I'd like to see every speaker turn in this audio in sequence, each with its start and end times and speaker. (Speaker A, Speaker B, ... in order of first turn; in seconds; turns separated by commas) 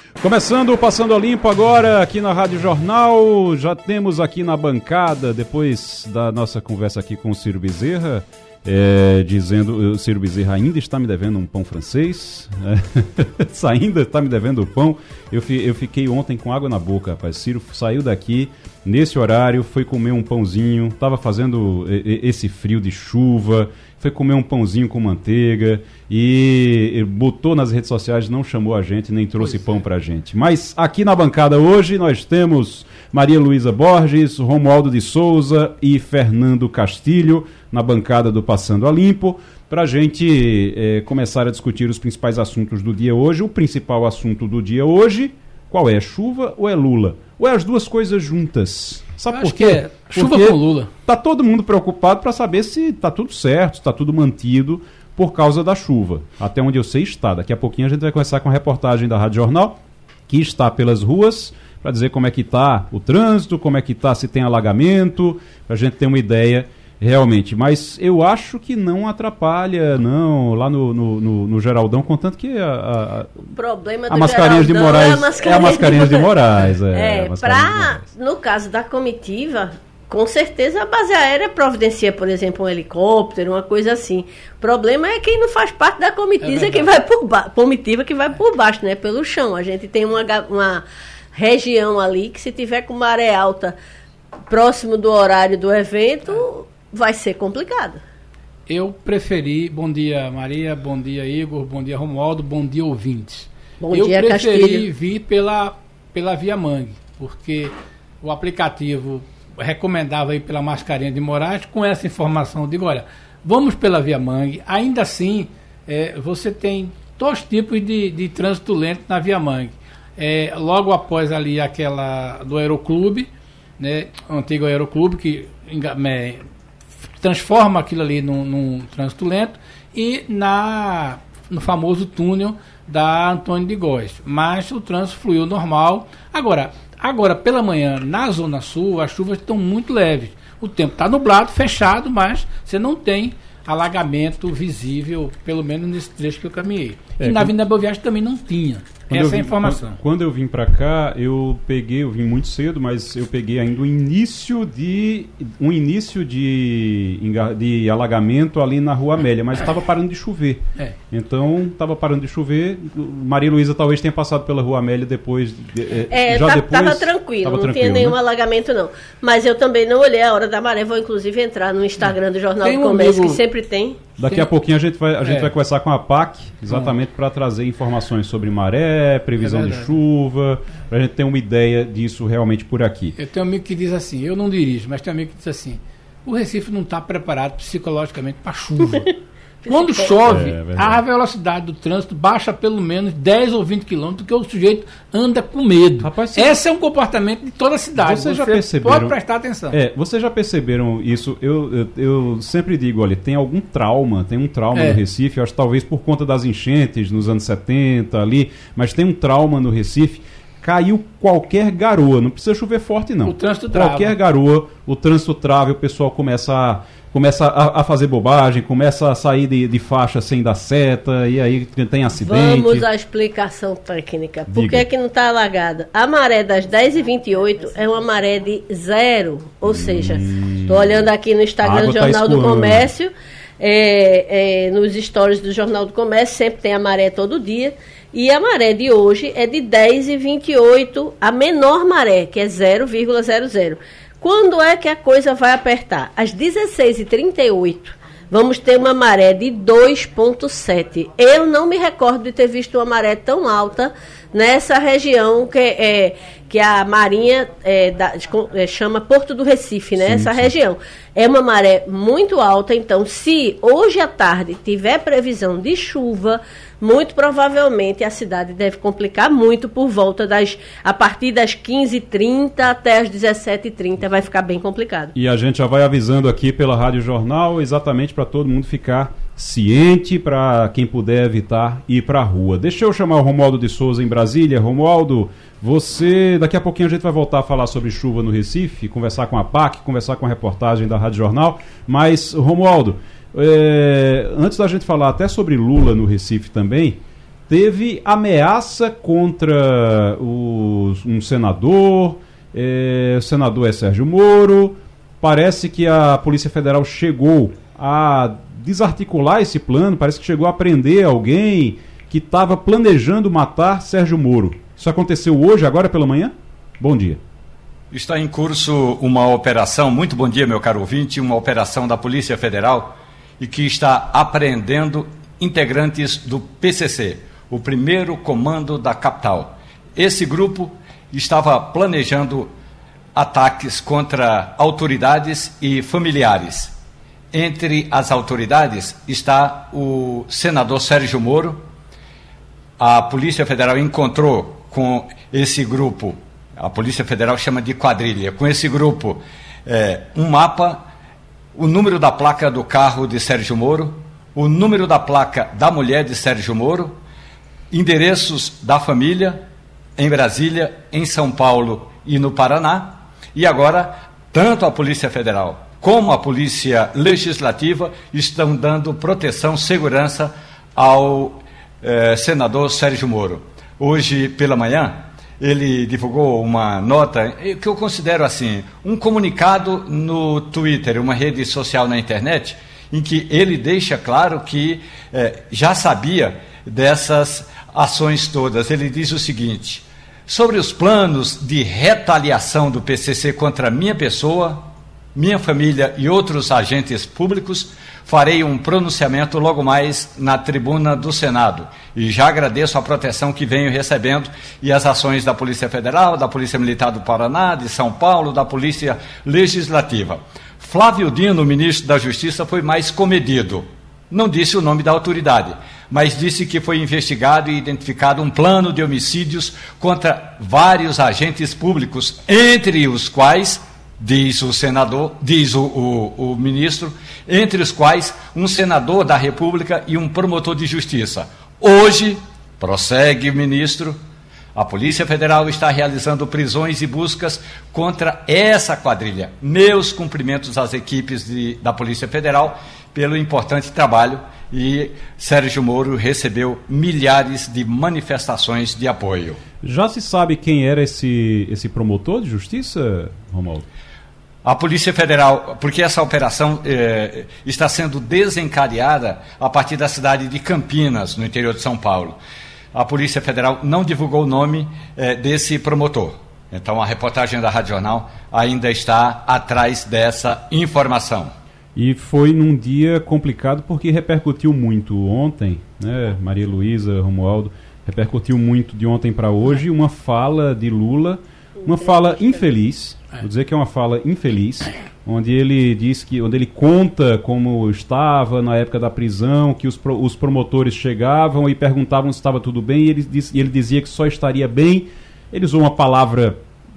Speaker A: 0.2-73.5, Speaker B: 49.3-50.9, Speaker C: 73.5-76.3, Speaker A: 74.1-78.0, Speaker C: 76.9-93.8, Speaker B: 86.5-86.8, Speaker C: 94.5-98.0, Speaker B: 98.7-126.4, Speaker C: 103.8-104.9, Speaker B: 127.2-150.0, Speaker A: 147.2-147.5, Speaker A: 149.1-168.2, Speaker C: 166.1-174.0, Speaker B: 172.6-173.4, Speaker A: 174.2-183.2, Speaker B: 175.2-175.5, Speaker B: 179.4-179.9, Speaker B: 183.2-189.1, Speaker B: 189.7-199.8, Speaker C: 189.7-190.1, Speaker A: 190.3-191.0, Speaker A: 196.0-196.6, Speaker A: 197.9-199.2, Speaker A: 199.7-222.8, Speaker B: 204.7-205.0, Speaker B: 213.2-214.2, Speaker C: 222.2-275.1, Speaker A: 224.5-224.8, Speaker A: 229.7-231.1, Speaker A: 231.6-232.9, Speaker A: 260.0-260.5, Speaker A: 275.1-317.2, Speaker D: 317.9-332.5, Speaker D: 333.1-336.7, Speaker D: 337.3-341.6, Speaker D: 342.8-350.9, Speaker D: 351.5-357.0, Speaker D: 357.7-359.4, Speaker D: 360.0-434.0, Speaker D: 434.5-449.4, Speaker A: 449.6-453.6, Speaker D: 454.4-462.2, Speaker D: 462.7-471.3, Speaker A: 471.8-496.4, Speaker C: 481.6-482.4